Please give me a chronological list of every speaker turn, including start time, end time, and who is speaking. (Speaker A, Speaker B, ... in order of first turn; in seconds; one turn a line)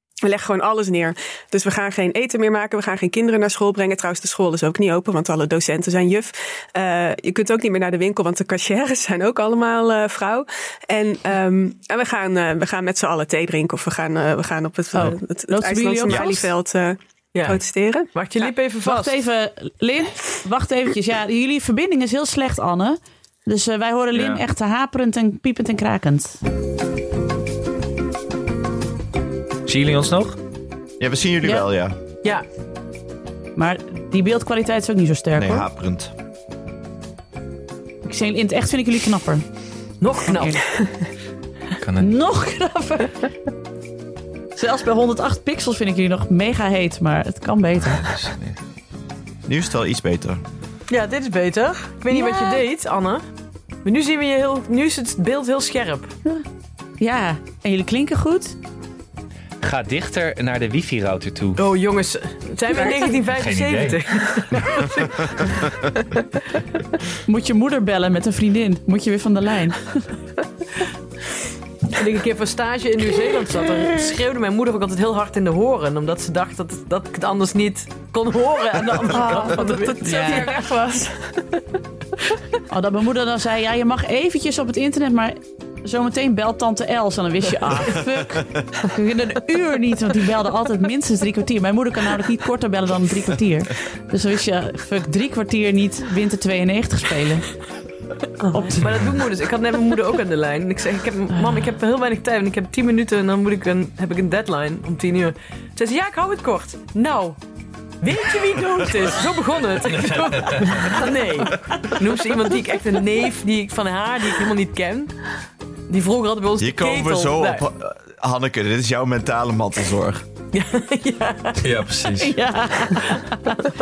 Speaker A: 0.2-18.1
Speaker B: 14.9-16.5
Speaker C: 17.3-17.6
Speaker C: 18.1-19.1
Speaker B: 18.8-26.4
Speaker D: 24.1-24.4
Speaker D: 29.7-30.4
Speaker E: 31.0-31.9
Speaker B: 33.6-35.7
Speaker E: 35.4-36.1
Speaker B: 38.0-39.5
Speaker C: 40.0-40.7
Speaker B: 40.3-40.6
Speaker D: 41.8-42.1
Speaker B: 42.0-43.3
Speaker B: 44.6-48.1
Speaker D: 47.9-48.6
Speaker E: 49.5-50.4
Speaker C: 50.9-53.2
Speaker B: 52.1-52.6
Speaker C: 53.8-56.1
Speaker B: 57.0-58.5
Speaker D: 59.6-61.6
Speaker C: 61.6-65.2
Speaker D: 63.3-64.0
Speaker B: 67.3-70.0
Speaker C: 71.9-80.6
Speaker A: 79.1-81.6
Speaker B: 80.0-80.5
Speaker B: 82.7-97.5
Speaker C: 98.4-107.4
Speaker B: 98.5-98.9
Speaker C: 108.0-115.2
Speaker D: 110.0-111.0
Speaker C: 115.9-117.7
Speaker E: 116.6-120.2
Speaker C: 120.5-121.6
Speaker D: 121.6-122.3
Speaker B: 122.2-123.6